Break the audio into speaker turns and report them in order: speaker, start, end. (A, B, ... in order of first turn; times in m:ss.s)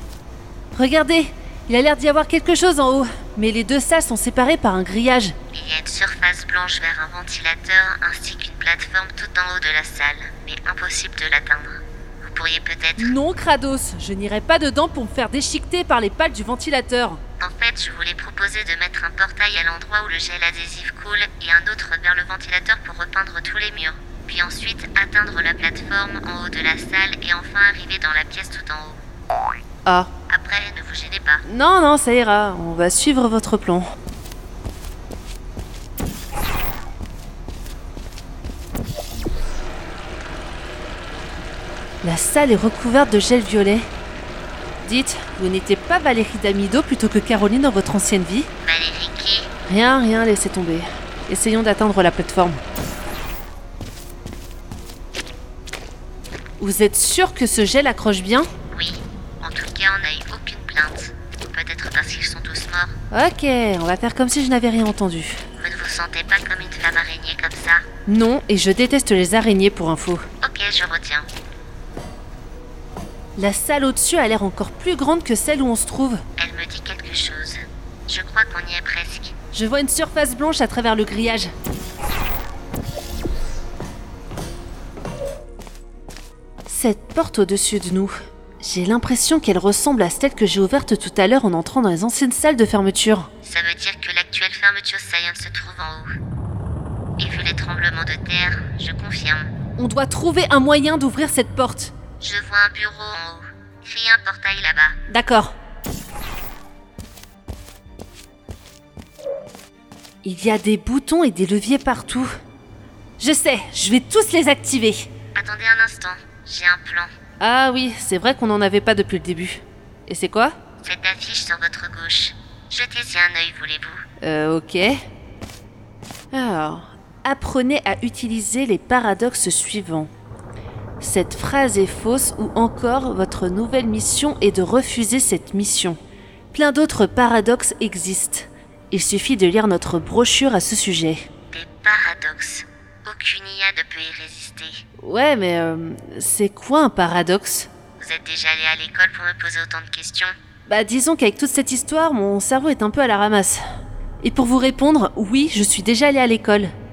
0:00.7-0:05.4 A
0:05.5-0:13.1 B
0:13.0-0:17.2 A
0:17.4-0:29.0 B
0:30.3-0:31.4 B
0:31.4-0:33.9 A
0:42.0-0:43.9 A
0:44.8-0:48.5 A
0:48.6-0:49.5 B
0:49.7-0:52.6 A
0:56.6-0:58.5 A
0:58.7-1:02.9 B
1:03.1-1:05.4 A
1:05.6-1:07.8 B
1:08.1-1:10.3 A
1:10.4-1:11.3 B
1:13.4-1:16.2 A
1:16.4-1:19.3 B
1:19.5-1:21.5 A
1:26.7-1:33.3 A
1:33.4-1:36.1 B
1:37.2-1:39.5 B
1:39.8-1:41.9 A
1:42.2-1:45.0 B
1:45.1-1:45.5 A
1:50.2-1:52.3 A
1:53.2-1:55.1 A
1:55.4-1:57.1 B
1:57.4-2:00.6 A
2:00.8-2:04.0 B
2:04.2-2:05.0 A
2:06.3-2:10.1 A
2:11.0-2:16.0 A
2:16.5-2:21.3 A
2:21.5-2:24.8 B
2:25.0-2:27.7 A
2:28.0-2:30.4 B
2:30.7-2:33.6 A
2:34.2-2:36.7 A